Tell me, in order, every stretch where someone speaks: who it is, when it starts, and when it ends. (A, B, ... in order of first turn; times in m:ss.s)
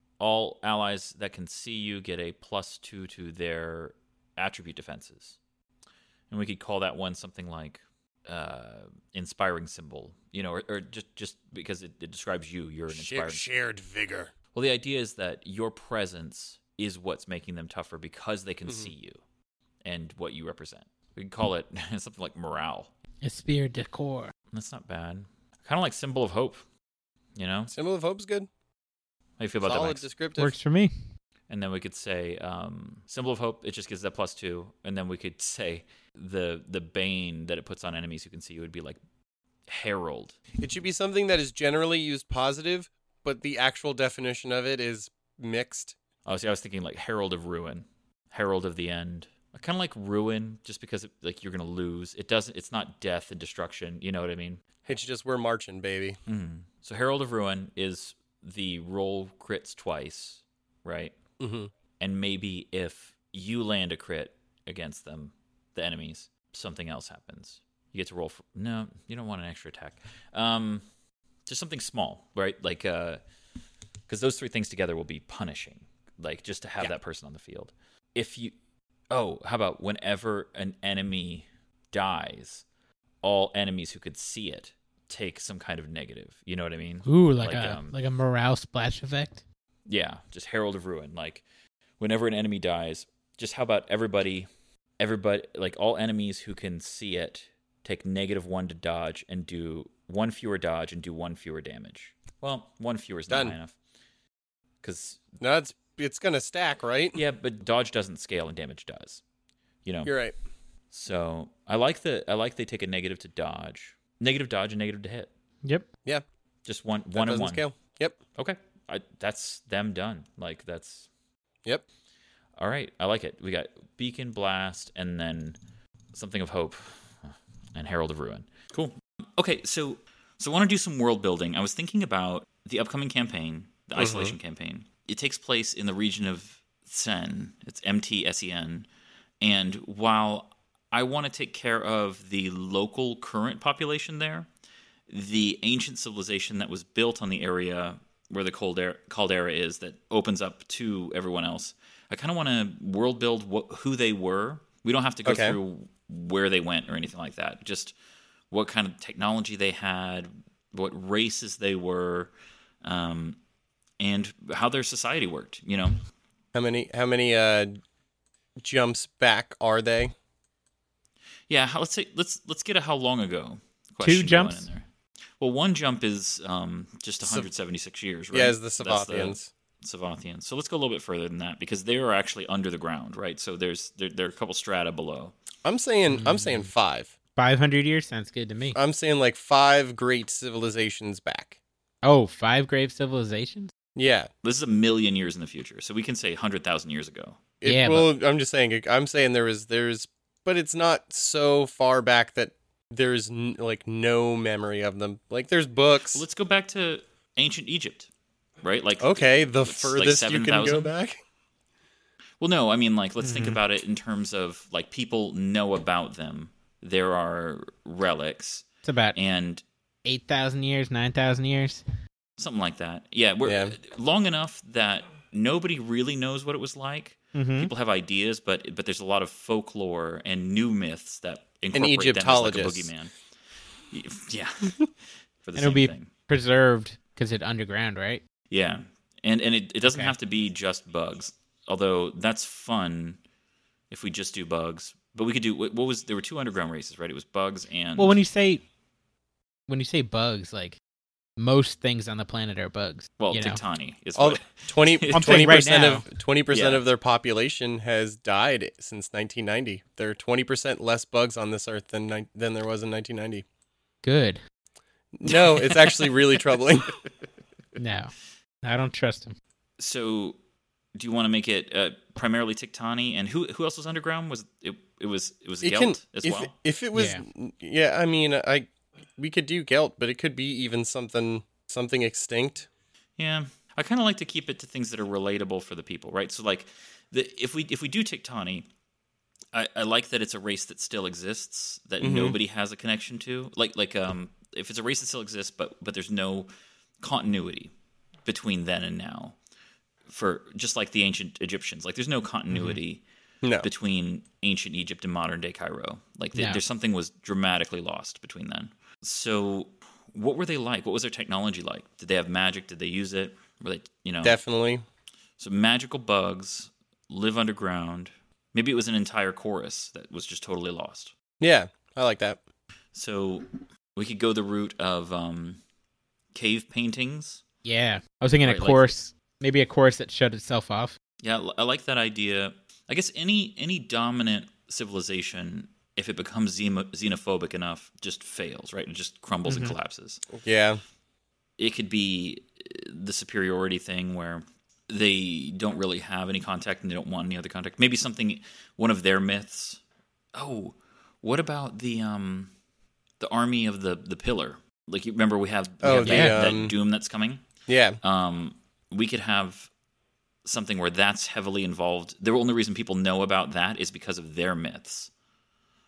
0:00.2-0:05.4 A
0:06.3-0:13.4 A
0:12.9-0:14.3 B
0:14.5-0:19.2 A
0:18.7-0:18.9 B
0:19.8-0:22.9 A
0:23.2-0:24.3 C
0:24.5-0:26.6 A
0:27.4-0:27.7 A
0:27.7-0:28.5 B
0:29.4-0:30.0 A
0:29.6-0:30.6 B
0:30.4-0:30.9 C
0:31.5-0:39.0 A
0:39.7-0:40.4 A
0:40.6-0:46.0 B
0:46.3-0:54.6 A
0:54.9-0:56.2 B
0:56.3-1:01.2 A
1:01.4-1:01.7 B
1:02.0-1:10.8 A
1:11.5-1:13.2 A
1:14.1-1:18.5 A
1:19.1-1:22.6 A
1:23.2-1:27.9 A
1:27.1-1:29.4 C
1:29.9-1:31.4 A
1:32.0-1:34.5 A
1:35.0-1:43.7 A
1:43.3-1:43.6 B
1:44.8-1:45.3 A
1:45.4-1:47.2 B
1:47.2-1:49.2 A
1:49.8-1:50.1 A
1:50.1-1:50.4 B
1:50.9-1:55.3 A
1:56.7-1:57.7 A
1:57.2-1:58.2 B
1:58.4-2:01.1 A
2:02.6-2:05.6 A
2:06.1-2:18.9 A
2:14.0-2:14.3 B
2:19.4-2:24.5 A
2:25.1-2:37.9 A
2:35.2-2:35.6 B
2:38.5-2:42.3 A
2:42.8-2:43.4 A
2:44.0-2:46.0 A
2:46.5-2:47.8 B
2:48.6-2:50.1 B
2:51.5-2:54.8 A
2:54.0-2:54.7 C
2:55.4-3:05.3 A
2:58.3-2:59.5 B
3:05.6-3:07.1 B
3:06.1-3:06.7 C
3:07.4-3:08.8 C
3:08.8-3:11.6 B
3:12.0-3:13.7 C
3:14.0-3:14.3 B
3:14.4-3:17.4 A
3:17.6-3:26.2 B
3:17.6-3:18.1 C
3:26.1-3:28.1 A
3:28.6-3:30.9 A
3:29.0-3:31.2 B
3:32.4-3:39.6 A
3:33.2-3:33.6 C
3:38.8-3:39.2 C
3:40.1-3:41.8 C
3:42.4-3:53.1 A
3:43.4-3:43.8 B
3:47.3-3:47.7 C
3:51.7-3:52.9 B
3:53.9-3:54.9 A
3:55.4-3:56.1 A
3:55.6-3:58.2 C
3:58.5-4:03.2 A
3:59.8-4:00.1 C
4:03.9-4:08.2 A
4:08.0-4:08.6 C
4:09.7-4:10.8 C
4:11.4-4:13.6 C
4:13.2-4:15.6 A
4:14.2-4:23.4 B
4:15.1-4:16.1 C
4:16.5-4:16.8 A
4:24.0-4:24.4 C
4:25.2-4:27.0 B
4:27.8-4:29.4 C
4:29.8-4:30.4 A
4:31.0-4:36.5 A
4:35.6-4:42.7 B
4:36.9-4:37.2 C
4:43.2-4:48.7 A
4:49.5-4:56.5 A
4:52.0-4:52.4 B
4:57.0-4:57.7 A
4:58.3-4:59.4 A
5:00.1-5:03.0 A
5:02.5-5:02.8 C
5:03.6-5:14.4 A
5:06.4-5:06.6 C
5:14.2-5:14.8 B
5:15.4-5:21.1 A
5:21.4-5:22.4 B
5:23.0-5:25.6 A
5:26.3-5:27.4 A
5:27.6-5:31.0 C
5:28.4-5:28.9 A
5:31.2-5:40.2 A
5:39.5-5:39.8 C
5:40.4-5:40.8 B
5:41.6-5:49.8 A
5:50.3-5:52.5 A
5:53.2-5:57.4 A
5:55.8-5:56.7 B
5:55.9-5:56.4 C
5:57.7-5:58.0 B
5:58.0-5:59.7 A
6:00.4-6:05.1 A